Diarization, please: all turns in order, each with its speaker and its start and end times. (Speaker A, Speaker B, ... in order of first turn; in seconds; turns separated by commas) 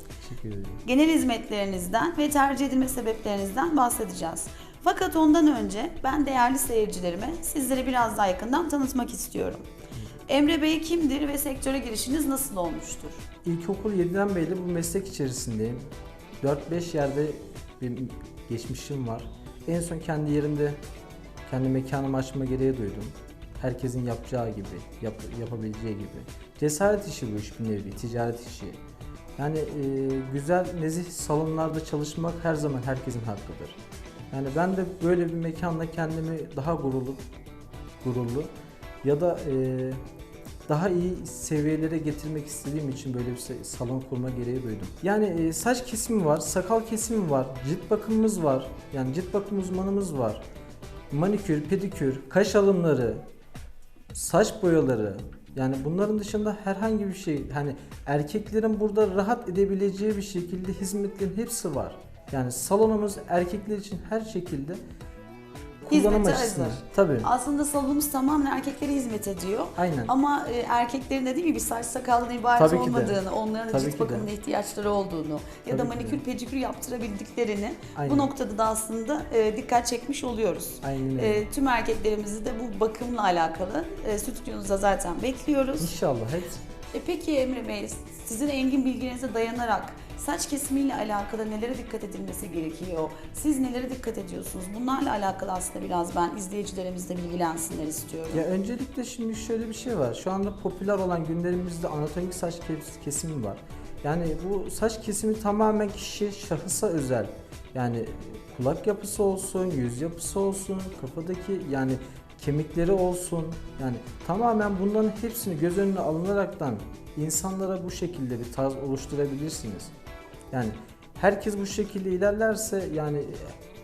Speaker A: 0.2-0.8, Speaker B: 0.8-9.7, Speaker B: 10.3-13.2, Speaker A: 13.4-15.8, Speaker A: 16.4-20.8, Speaker A: 21.5-28.8, Speaker A: 29.4-33.8, Speaker A: 34.3-37.2, Speaker A: 38.0-38.5, Speaker A: 39.0-40.0, Speaker A: 40.7-50.4, Speaker A: 51.1-53.2, Speaker A: 54.1-64.8, Speaker A: 65.8-67.3, Speaker B: 65.9-85.9, Speaker A: 69.8-70.1, Speaker A: 72.6-74.3, Speaker A: 75.7-76.2, Speaker A: 78.0-78.3, Speaker A: 80.8-81.4, Speaker A: 85.8-86.6, Speaker B: 86.9-98.5, Speaker A: 98.3-119.9, Speaker A: 120.5-123.5